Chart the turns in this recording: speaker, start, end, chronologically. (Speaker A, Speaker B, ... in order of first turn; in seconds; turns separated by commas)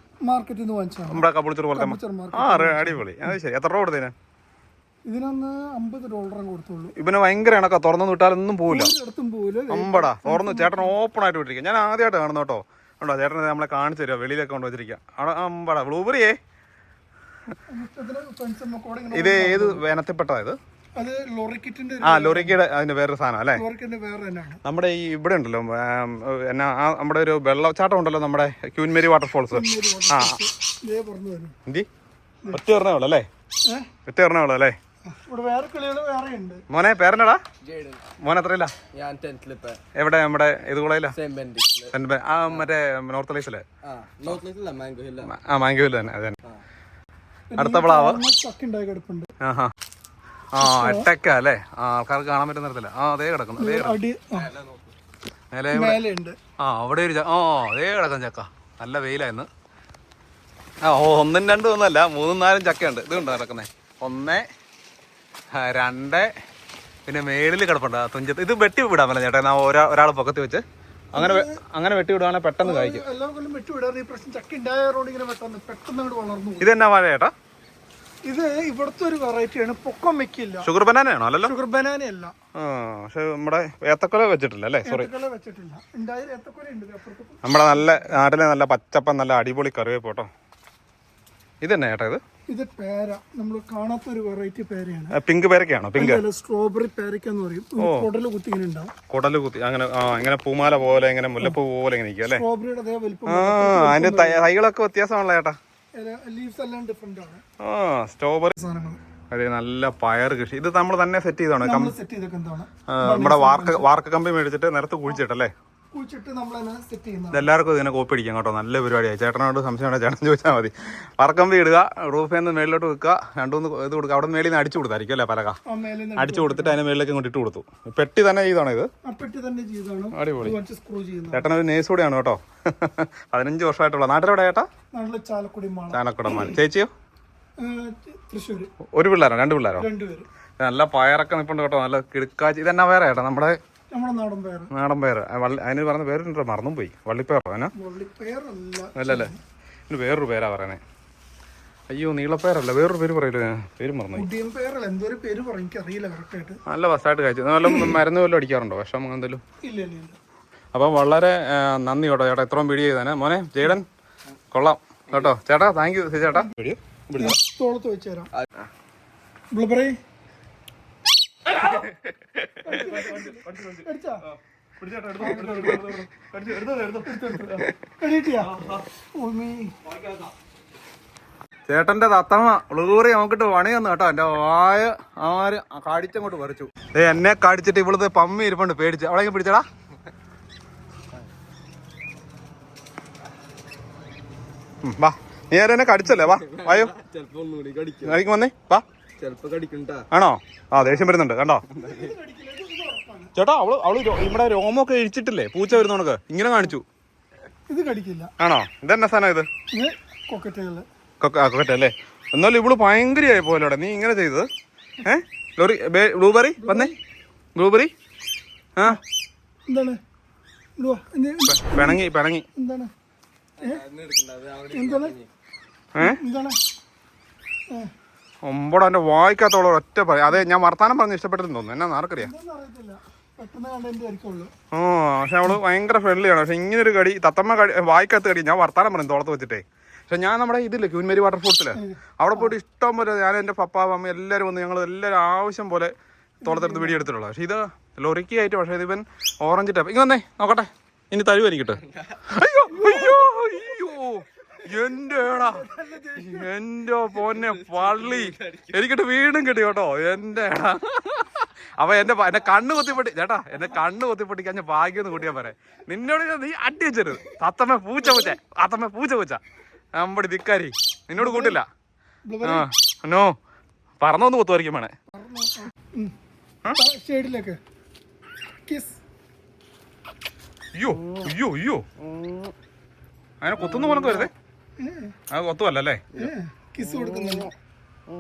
Speaker A: 0.2-3.3, Speaker B: 1.1-4.1, Speaker A: 5.1-6.9, Speaker B: 7.0-8.9, Speaker A: 8.7-11.0, Speaker B: 9.7-16.4, Speaker A: 17.7-19.8, Speaker B: 19.1-20.6, Speaker A: 21.0-22.6, Speaker B: 22.0-23.6, Speaker A: 23.6-24.6, Speaker B: 24.6-30.4, Speaker A: 29.5-31.6, Speaker B: 32.5-33.3, Speaker B: 34.1-34.8, Speaker A: 35.1-36.6, Speaker B: 36.7-37.4, Speaker C: 37.6-38.0, Speaker B: 38.2-38.7, Speaker C: 38.9-39.8, Speaker B: 40.0-41.2, Speaker C: 41.1-41.9, Speaker B: 41.9-43.6, Speaker C: 43.8-45.3, Speaker B: 45.2-46.4, Speaker A: 47.5-49.3, Speaker B: 47.6-48.2, Speaker B: 49.4-49.7, Speaker B: 50.5-54.0, Speaker A: 50.6-51.1, Speaker A: 53.6-54.5, Speaker C: 54.4-54.9, Speaker B: 55.5-56.0, Speaker A: 55.7-56.4, Speaker B: 56.6-59.5, Speaker B: 60.8-64.5, Speaker B: 65.5-66.3, Speaker B: 67.1-70.6, Speaker A: 71.1-71.6, Speaker B: 71.2-73.0, Speaker A: 72.6-76.7, Speaker B: 76.6-77.3, Speaker A: 78.3-80.7, Speaker B: 80.6-81.5, Speaker A: 81.4-82.3, Speaker B: 82.6-85.1, Speaker A: 84.8-88.2, Speaker B: 87.4-90.3, Speaker B: 91.6-92.2, Speaker A: 92.5-95.2, Speaker B: 95.1-96.2, Speaker A: 96.0-98.9, Speaker B: 97.8-98.1, Speaker B: 99.1-102.4, Speaker A: 102.3-104.5, Speaker B: 103.3-105.6, Speaker A: 106.0-107.4, Speaker B: 107.6-108.6, Speaker A: 108.6-109.0, Speaker B: 109.3-112.0, Speaker A: 111.6-113.9, Speaker B: 112.9-115.5, Speaker A: 115.9-117.5, Speaker B: 117.3-125.6, Speaker A: 125.7-126.8, Speaker B: 126.2-128.9, Speaker A: 129.0-131.5, Speaker B: 130.2-130.6, Speaker B: 131.3-134.7, Speaker A: 134.9-136.6, Speaker B: 135.9-136.9, Speaker A: 137.6-138.7, Speaker B: 138.9-139.9, Speaker A: 139.8-140.3, Speaker B: 140.6-143.6, Speaker A: 143.9-144.7, Speaker B: 144.7-147.7, Speaker A: 147.8-149.4, Speaker B: 149.0-149.3, Speaker B: 149.9-150.8, Speaker B: 151.9-154.3, Speaker A: 154.1-156.6, Speaker B: 156.7-159.4, Speaker A: 157.6-158.0, Speaker A: 159.6-160.2, Speaker B: 160.7-163.9, Speaker B: 164.5-167.3, Speaker A: 167.2-168.3, Speaker A: 169.5-170.0, Speaker B: 171.5-171.9, Speaker B: 172.5-173.8, Speaker A: 172.6-174.2, Speaker B: 174.8-177.8, Speaker A: 175.2-176.0, Speaker A: 177.1-178.5, Speaker B: 178.4-178.9, Speaker A: 179.2-179.7, Speaker B: 181.7-189.7, Speaker B: 194.8-196.9, Speaker C: 196.1-198.2, Speaker B: 198.0-198.8, Speaker C: 199.2-200.1, Speaker B: 200.1-201.7, Speaker A: 201.7-203.3, Speaker C: 201.8-202.1, Speaker B: 203.4-206.8, Speaker A: 207.7-208.3, Speaker B: 208.4-209.5, Speaker A: 209.7-210.9, Speaker B: 211.2-214.5, Speaker B: 215.0-216.9, Speaker A: 216.6-217.0, Speaker B: 217.6-217.9, Speaker A: 219.7-220.0, Speaker A: 220.8-222.9, Speaker B: 221.5-222.4, Speaker C: 223.6-225.3, Speaker A: 224.7-225.2, Speaker A: 226.0-226.6, Speaker B: 228.4-232.3, Speaker A: 232.2-234.5, Speaker B: 234.7-245.9, Speaker A: 241.7-242.5, Speaker A: 246.4-247.1, Speaker B: 246.4-269.4, Speaker A: 252.7-253.3, Speaker A: 255.1-256.5, Speaker C: 257.4-258.7, Speaker A: 268.0-268.3, Speaker B: 270.0-271.7, Speaker A: 271.2-271.6, Speaker A: 272.3-272.7, Speaker B: 272.4-273.4, Speaker B: 274.0-274.9, Speaker A: 275.1-276.1, Speaker A: 276.7-277.6, Speaker A: 278.7-279.0, Speaker B: 280.8-281.9, Speaker B: 283.4-284.3, Speaker A: 284.8-285.1, Speaker B: 285.3-286.2, Speaker A: 286.1-287.5